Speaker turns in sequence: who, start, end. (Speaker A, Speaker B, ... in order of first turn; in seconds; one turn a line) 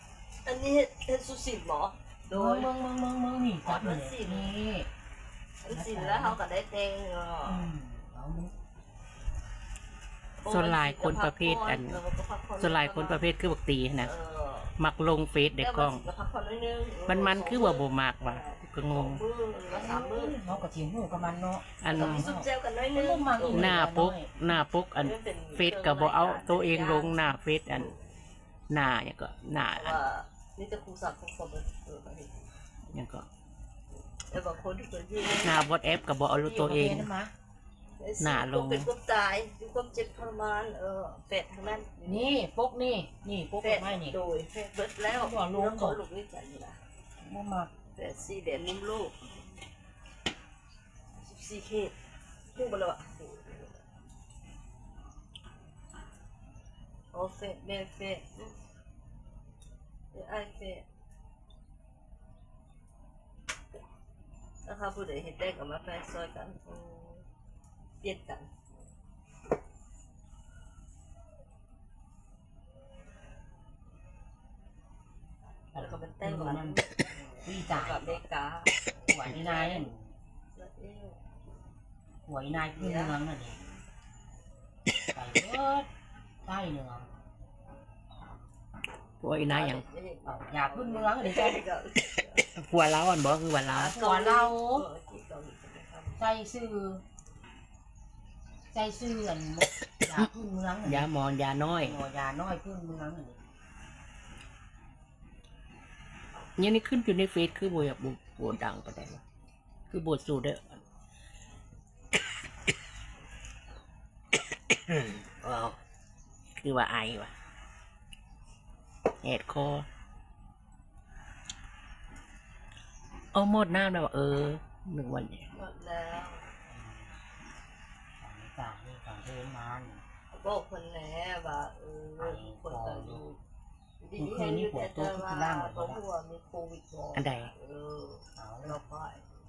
Speaker A: 0.4-2.8
Speaker B: 2.3-4.9
Speaker A: 3.6-4.6
Speaker A: 5.6-7.7
Speaker B: 5.7-6.4
Speaker B: 7.4-8.5
Speaker A: 10.4-13.3
Speaker C: 10.5-12.0
Speaker C: 12.6-14.1
Speaker A: 14.0-14.8
Speaker C: 14.8-16.1
Speaker A: 15.6-20.5
Speaker C: 17.1-19.2
Speaker B: 19.7-24.5
Speaker C: 21.8-22.3
Speaker A: 21.9-23.8
Speaker C: 23.4-27.9
Speaker A: 25.0-27.2
Speaker C: 28.7-30.0
Speaker A: 29.7-32.4
Speaker C: 32.9-33.3
Speaker A: 34.3-35.6
Speaker C: 35.4-37.1
Speaker B: 36.4-37.3
Speaker A: 38.0-42.3
Speaker C: 38.2-38.9
Speaker B: 42.0-44.2
Speaker A: 43.6-46.8
Speaker B: 45.1-46.0
Speaker B: 47.2-47.7
Speaker A: 47.9-49.3
Speaker A: 51.2-51.9
Speaker A: 52.5-53.8
Speaker A: 57.1-58.5
Speaker A: 60.1-60.9
Speaker A: 64.7-67.3
Speaker A: 68.0-68.5
Speaker B: 75.7-76.8
Speaker A: 75.7-79.9
Speaker B: 77.4-78.2
Speaker B: 79.0-80.1
Speaker A: 80.5-81.2
Speaker B: 82.3-83.6
Speaker A: 82.7-83.2
Speaker B: 85.1-85.9
Speaker B: 86.4-87.1
Speaker C: 89.2-89.8
Speaker A: 89.5-92.5
Speaker B: 90.3-91.6
Speaker C: 92.5-94.0
Speaker A: 93.7-96.2
Speaker B: 93.8-94.9
Speaker B: 96.2-97.0
Speaker B: 98.7-101.1
Speaker C: 100.8-102.0
Speaker B: 101.8-103.4
Speaker C: 106.6-109.2
Speaker C: 109.9-110.8
Speaker C: 114.9-115.8
Speaker C: 116.6-117.3
Speaker C: 119.2-119.9
Speaker C: 123.3-125.5
Speaker A: 125.5-126.4
Speaker B: 126.7-127.2
Speaker B: 128.2-130.0
Speaker A: 130.3-133.4
Speaker B: 132.2-133.2
Speaker A: 134.0-139.4
Speaker B: 134.2-136.0
Speaker C: 137.1-137.5
Speaker B: 138.4-138.8